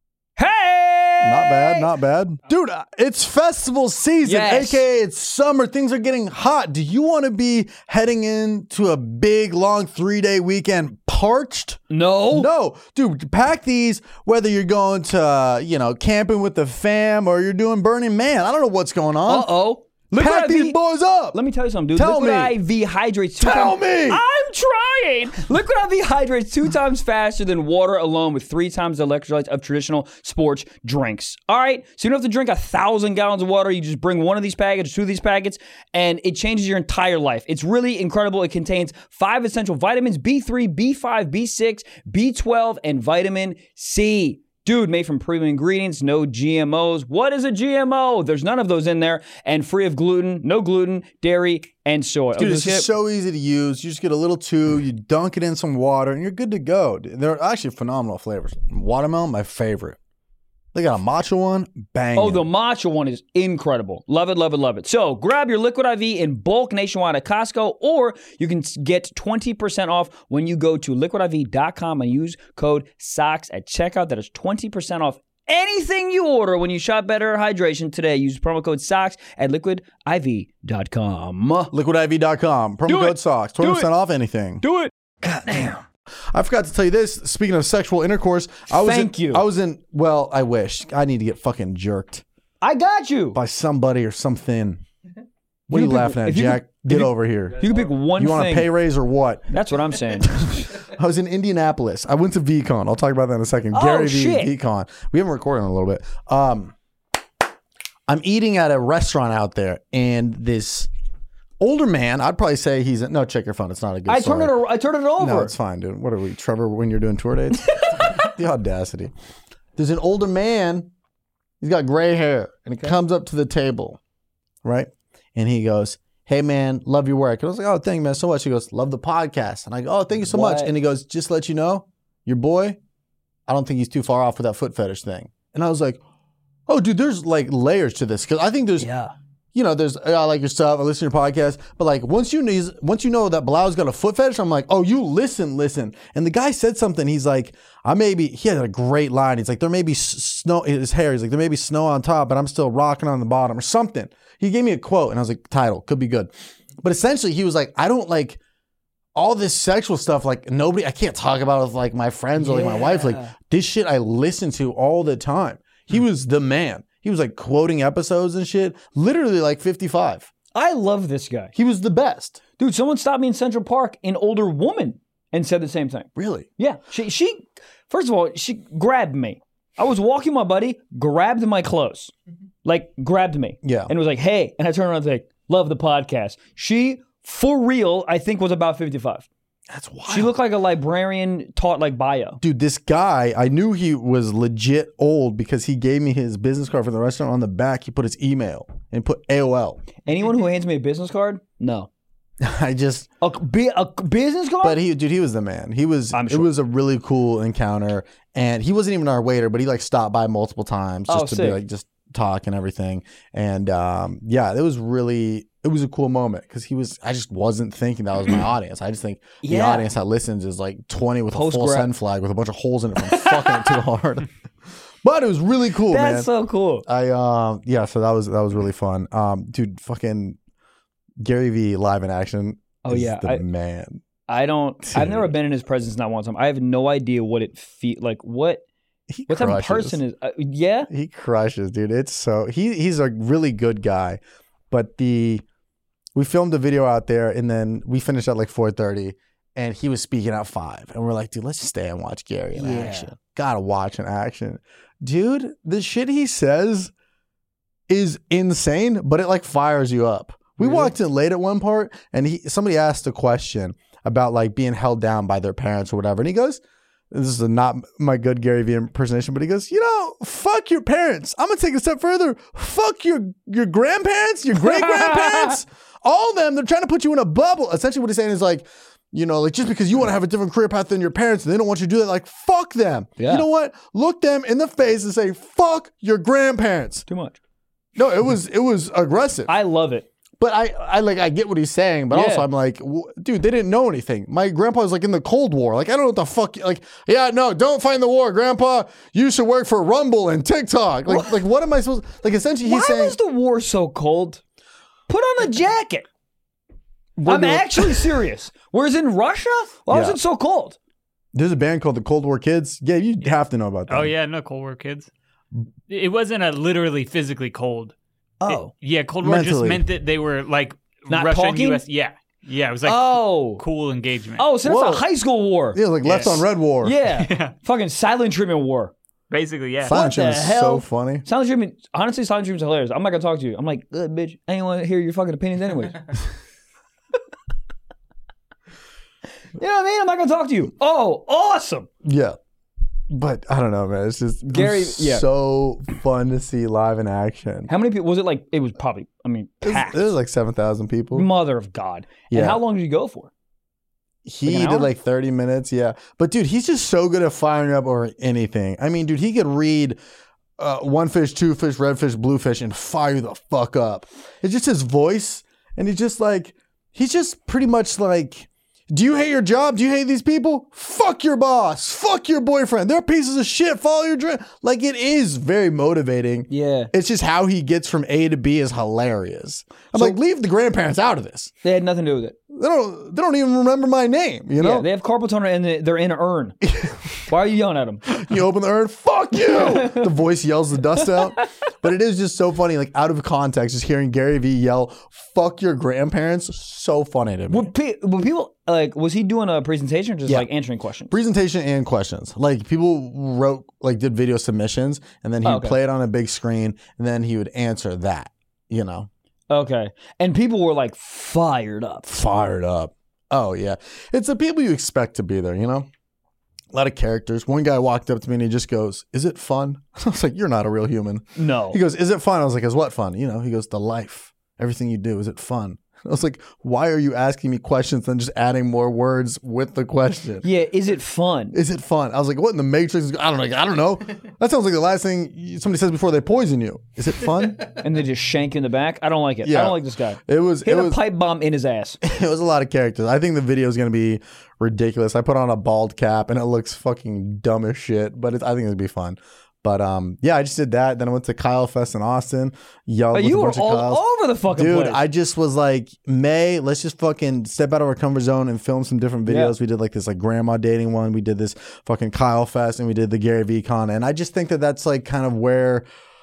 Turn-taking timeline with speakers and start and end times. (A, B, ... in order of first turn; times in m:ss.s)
0:00.4-0:01.9 A
0:01.2-0:19.5 B
0:04.2-0:04.8 A
0:11.9-0:12.5 A
0:19.3-0:20.8 A
0:20.2-0:21.4 B
0:21.3-0:52.9 A
0:22.0-0:22.6 B
0:23.4-0:24.2 B
0:52.4-1:00.0 B
1:00.7-1:02.5 B
1:02.2-1:21.7 A
1:21.7-1:24.6 B
1:22.9-1:23.9 A
1:24.6-1:25.8 A
1:26.3-1:32.2 B
1:28.7-1:29.4 A
1:32.6-1:33.4 A
1:33.3-1:34.8 B
1:35.7-1:39.6 B
1:35.7-1:38.7 A
1:39.5-1:40.8 A
1:40.2-1:46.8 B
1:43.7-1:44.5 A
1:48.1-1:50.9 B
1:51.6-1:54.6 B
1:54.1-1:55.5 A
1:55.2-1:59.1 B
1:57.6-1:58.3 A
1:59.8-2:00.9 B
2:01.6-2:04.0 B
2:04.6-2:12.8 B
2:10.3-2:10.7 A
2:13.5-2:16.0 B
2:16.7-2:18.9 B
2:18.8-2:19.1 A
2:19.5-2:38.4 B
2:39.2-2:50.3 B
2:42.4-2:43.3 A
2:50.6-2:51.5 A
2:51.6-2:52.4 B
2:52.6-3:02.1 A
2:56.2-2:56.5 B
3:02.6-3:09.3 A
3:03.6-3:03.9 B
3:09.7-3:10.3 B
3:10.1-3:12.4 A
3:12.4-3:19.8 B
3:20.0-3:21.9 A
3:22.4-3:23.1 B
3:23.2-3:24.8 A
3:24.6-3:44.3 B
3:26.1-3:26.5 A
3:31.1-3:31.6 A
3:39.4-3:39.9 A
3:41.3-3:41.9 A
3:43.0-3:43.8 A
3:45.0-3:46.3 B
3:45.9-3:46.9 A
3:46.9-3:50.4 B
3:51.2-3:54.0 B
3:52.8-3:53.4 A
3:54.3-3:58.6 A
3:54.8-3:55.3 B
3:59.1-4:00.0 B
3:59.3-4:00.9 A
4:00.9-4:05.4 B
4:06.2-4:16.9 B
4:12.5-4:13.1 A
4:17.9-4:47.0 B
4:20.6-4:20.9 A
4:34.6-4:35.6 A
4:43.2-4:43.5 A
4:47.1-4:47.4 A
4:48.0-4:49.5 B
4:49.5-4:50.1 A
4:50.4-5:03.2 B
4:52.1-4:52.5 A
5:01.1-5:01.4 A
5:02.6-5:04.4 A
5:05.1-5:06.1 A
5:07.2-5:08.2 B
5:07.3-5:10.8 A
5:09.9-5:10.2 B
5:11.3-5:14.1 B
5:13.9-5:15.1 C
5:15.9-5:18.0 C
5:18.4-5:18.7 A
5:18.5-5:24.5 C
5:19.2-5:19.8 B
5:21.1-5:21.8 A
5:22.8-5:23.6 A
5:24.4-5:25.8 A
5:24.6-5:25.0 B
5:25.7-5:27.0 B
5:26.0-5:26.5 C
5:26.8-5:28.9 A
5:27.1-5:27.5 C
5:29.3-5:30.0 C
5:29.8-5:31.2 B
5:29.8-5:36.1 A
5:39.6-5:41.9 A
5:42.0-5:42.4 B
5:43.1-5:47.7 B
5:44.5-5:45.3 A
5:47.7-5:50.1 A
5:49.6-5:51.3 B
5:51.1-5:53.3 A
5:52.3-5:52.6 B
5:54.2-6:00.0 B
5:54.5-5:54.9 A
6:00.6-6:21.5 B
6:16.5-6:16.9 A
6:21.6-6:22.4 A
6:22.5-6:24.9 B
6:24.6-6:26.6 A
6:26.6-6:27.1 B
6:27.3-6:28.1 A
6:28.1-6:37.7 B
6:29.4-6:30.1 A
6:37.5-6:41.1 A
6:41.1-6:49.1 B
6:45.4-6:45.8 A
6:49.5-6:52.1 A
6:52.1-6:55.9 B
6:56.7-7:10.5 B
7:01.4-7:01.8 A
7:10.4-7:11.6 A
7:11.5-7:17.7 B
7:17.7-7:22.0 A
7:19.4-7:21.0 B
7:22.0-7:45.9 B
7:33.1-7:35.0 A
7:39.3-7:39.6 A